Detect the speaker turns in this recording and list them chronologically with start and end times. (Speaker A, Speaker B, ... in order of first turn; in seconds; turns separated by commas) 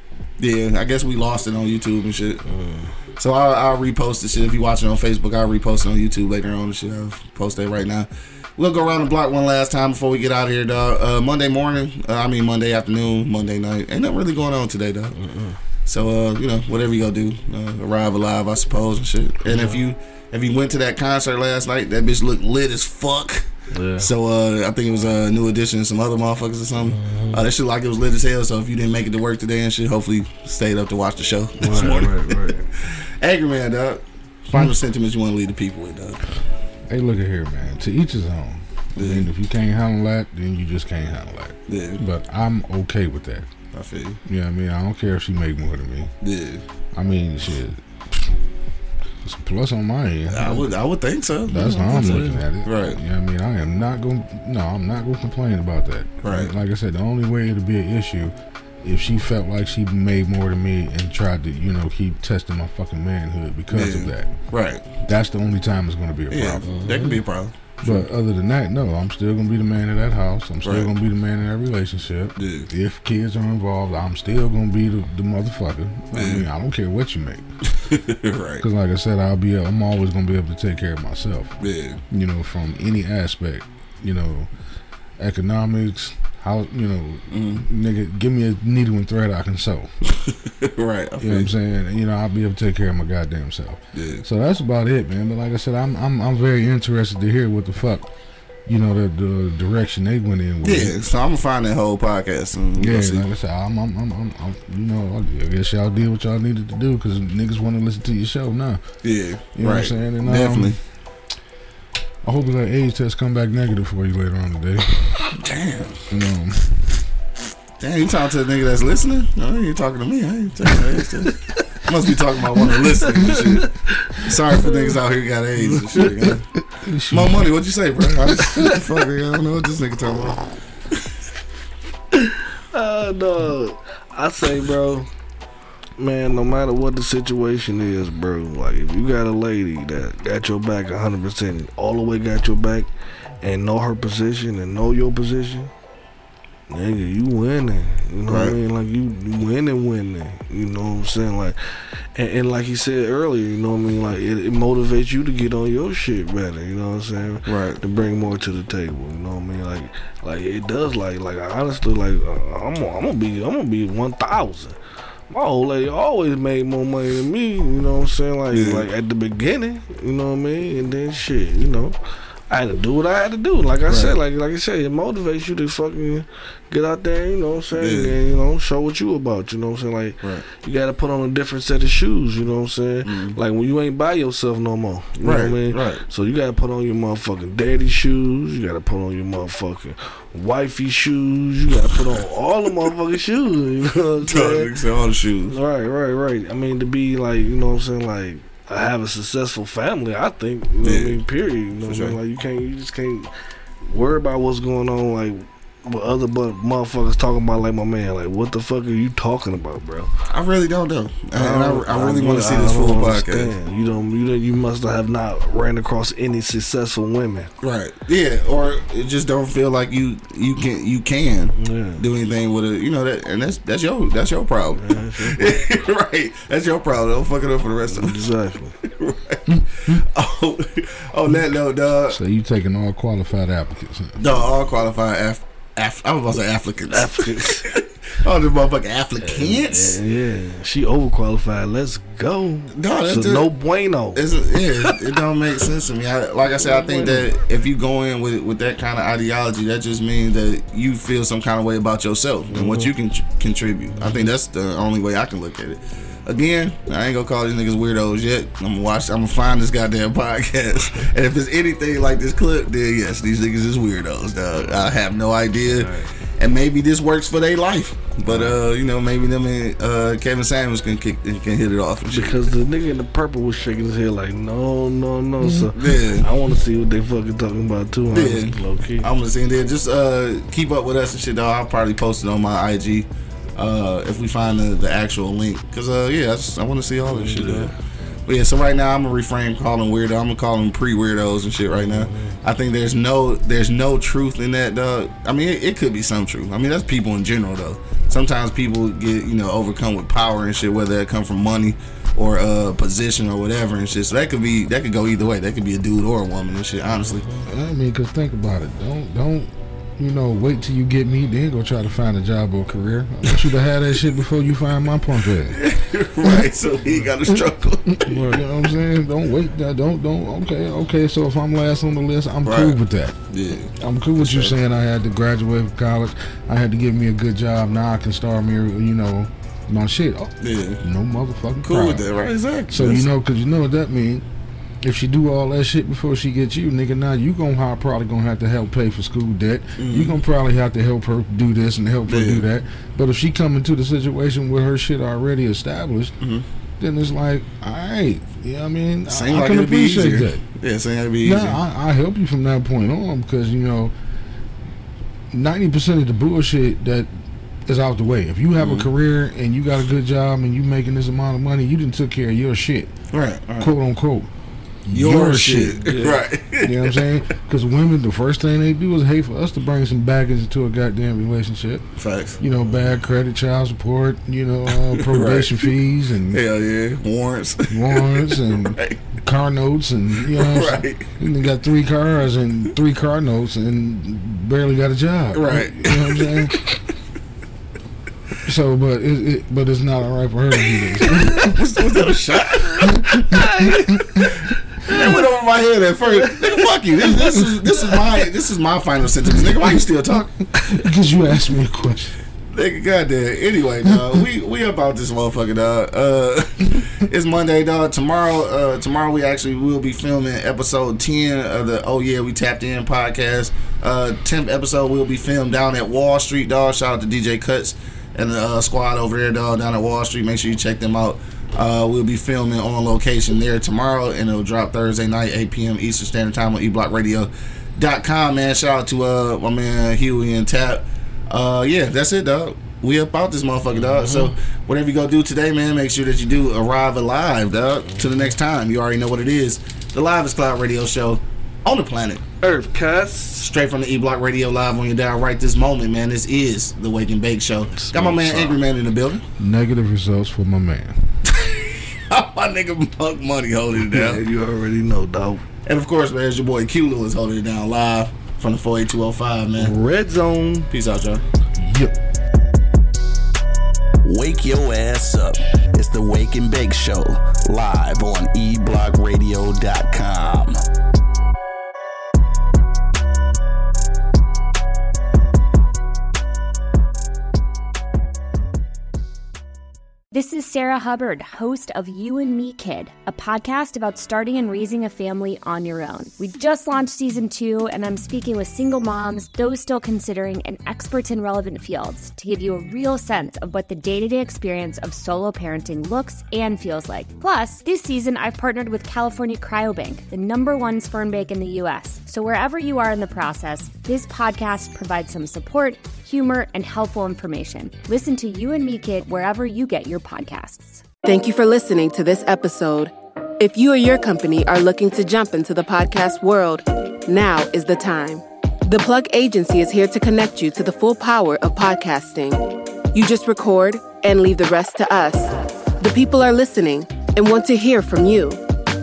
Speaker A: 0.4-2.4, Speaker B: 2.5-2.9, Speaker A: 3.2-15.2, Speaker B: 15.2-15.6, Speaker A: 15.9-23.5, Speaker B: 19.5-19.8, Speaker B: 23.7-24.1, Speaker A: 24.0-36.2, Speaker B: 26.9-27.4, Speaker B: 31.6-32.6, Speaker C: 36.9-43.5, Speaker A: 39.0-39.3, Speaker A: 41.7-42.0, Speaker A: 43.7-44.2, Speaker C: 44.3-46.1, Speaker A: 46.2-46.6, Speaker C: 47.0-48.3, Speaker C: 49.2-50.8, Speaker A: 50.3-53.0, Speaker C: 51.5-64.3, Speaker B: 51.5-52.4, Speaker A: 56.2-56.5, Speaker A: 63.7-64.8, Speaker C: 65.0-66.7, Speaker A: 66.3-68.1, Speaker B: 66.7-67.2, Speaker C: 67.8-77.5, Speaker A: 70.6-70.9, Speaker A: 72.4-72.7, Speaker A: 76.1-76.5, Speaker A: 77.8-78.7, Speaker C: 78.6-84.5, Speaker A: 81.6-82.0, Speaker C: 85.2-89.9, Speaker A: 87.3-87.7, Speaker A: 90.1-91.5, Speaker C: 91.2-98.1, Speaker A: 93.9-94.2, Speaker C: 98.7-101.0, Speaker A: 100.6-103.3, Speaker C: 102.8-108.8, Speaker A: 109.0-110.8, Speaker C: 109.5-110.8, Speaker C: 112.2-115.2, Speaker A: 115.4-116.1, Speaker C: 116.1-116.9, Speaker A: 117.8-123.7, Speaker B: 123.0-124.9, Speaker A: 124.2-126.5, Speaker B: 125.7-126.3, Speaker C: 126.6-127.5, Speaker A: 127.1-130.4, Speaker B: 132.1-135.1, Speaker B: 136.0-142.9, Speaker B: 143.4-145.7, Speaker B: 146.7-151.6, Speaker A: 148.3-148.6, Speaker B: 152.2-164.8, Speaker A: 157.5-157.8, Speaker B: 165.3-172.0, Speaker A: 168.5-168.8, Speaker B: 172.5-194.7, Speaker A: 173.9-174.1, Speaker A: 177.8-178.2, Speaker A: 183.1-183.4, Speaker A: 185.2-186.0, Speaker A: 194.2-195.6, Speaker B: 195.5-203.3, Speaker A: 200.8-201.2, Speaker A: 201.9-202.2, Speaker B: 203.8-210.1, Speaker A: 210.3-213.5, Speaker B: 211.3-217.5, Speaker A: 217.6-228.2, Speaker B: 221.6-222.0, Speaker B: 224.7-225.6, Speaker B: 227.9-228.8, Speaker A: 228.8-232.2, Speaker C: 229.5-230.0, Speaker C: 232.1-234.3, Speaker A: 234.2-240.0, Speaker B: 236.9-237.7, Speaker B: 239.2-244.3, Speaker A: 242.7-243.5, Speaker A: 244.1-272.5, Speaker B: 244.8-245.2, Speaker B: 246.6-247.3, Speaker B: 252.5-252.9, Speaker B: 265.7-266.1, Speaker B: 268.3-268.6, Speaker B: 272.1-279.1, Speaker C: 275.4-275.7, Speaker A: 275.7-276.3, Speaker A: 278.1-287.7, Speaker B: 287.1-288.2, Speaker A: 288.2-307.3, Speaker B: 291.8-292.4, Speaker C: 307.4-315.6, Speaker A: 315.5-318.4, Speaker C: 318.0-323.2, Speaker A: 322.5-322.8, Speaker A: 323.3-324.6, Speaker C: 323.8-332.1, Speaker A: 330.4-330.8, Speaker A: 331.6-333.1, Speaker C: 332.7-334.2, Speaker C: 334.8-346.1, Speaker A: 339.8-340.2, Speaker A: 342.1-342.4, Speaker A: 346.2-346.5, Speaker C: 346.8-350.4, Speaker A: 349.1-351.6, Speaker C: 351.2-353.9, Speaker C: 355.3-357.1, Speaker C: 357.7-362.9, Speaker A: 358.6-358.9, Speaker A: 363.1-363.7, Speaker C: 363.6-364.3, Speaker C: 364.9-365.8, Speaker A: 364.9-367.0, Speaker B: 365.8-366.2, Speaker C: 366.6-371.9, Speaker A: 372.0-372.4, Speaker C: 372.4-376.4, Speaker A: 375.0-375.7, Speaker A: 376.3-379.0, Speaker C: 377.7-386.6, Speaker A: 380.3-381.1, Speaker A: 385.3-386.4, Speaker C: 388.4-391.6, Speaker A: 391.3-393.0, Speaker C: 392.8-394.4, Speaker B: 393.3-394.0, Speaker A: 394.9-400.4, Speaker C: 397.2-397.5, Speaker C: 400.6-402.2, Speaker A: 402.5-442.2, Speaker B: 433.8-434.3, Speaker B: 437.9-438.3, Speaker B: 442.4-443.5, Speaker A: 443.4-449.2, Speaker B: 447.7-448.6, Speaker C: 449.4-451.0, Speaker A: 451.2-454.2, Speaker B: 453.9-455.4, Speaker A: 455.7-459.8, Speaker B: 459.6-460.7, Speaker A: 460.7-461.2, Speaker C: 461.6-462.0, Speaker D: 464.0-470.6, Speaker E: 480.1-510.8, Speaker F: 511.0-522.4, Speaker F: 522.9-525.3, Speaker F: 525.8-528.4